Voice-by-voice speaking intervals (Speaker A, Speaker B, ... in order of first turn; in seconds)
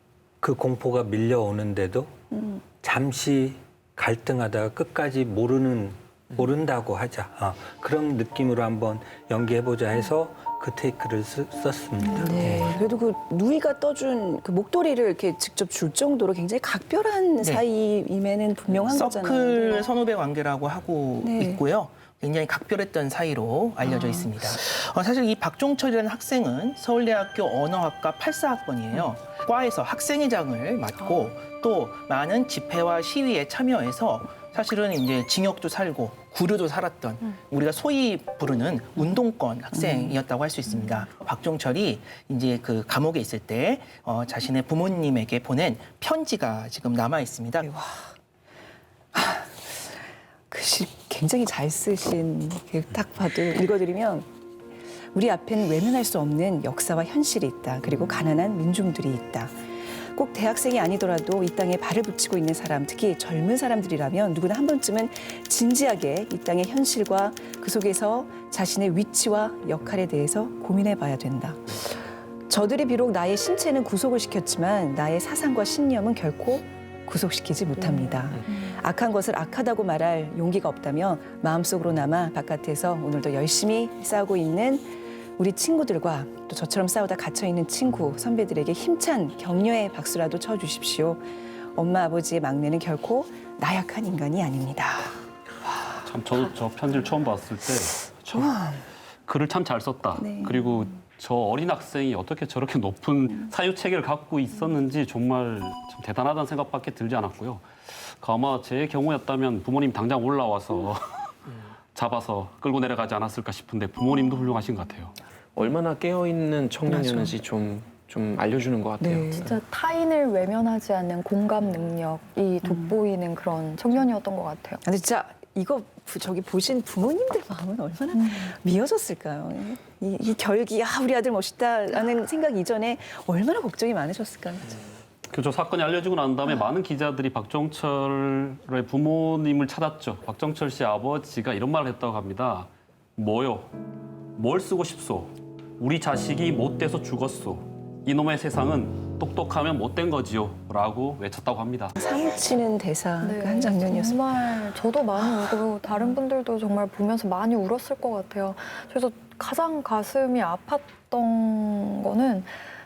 Speaker A: 0.4-2.1, 2.8-12.7
Speaker B: 12.1-19.9, 21.2-21.6, 23.8-24.3, 39.7-40.1, 47.6-48.1, 49.1-50.0, 50.5-54.2, 55.1-91.2, 91.7-95.2, 98.3-98.8, 100.2-100.9, 116.9-117.3, 119.0-119.4, 122.6-122.9, 124.8-134.8, 151.9-154.2
Speaker C: 18.8-47.7
Speaker D: 96.0-98.5, 99.2-111.3, 111.9-115.1, 135.3-143.7, 144.3-151.9
Speaker E: 115.5-119.6
Speaker F: 119.3-124.8, 153.2-162.6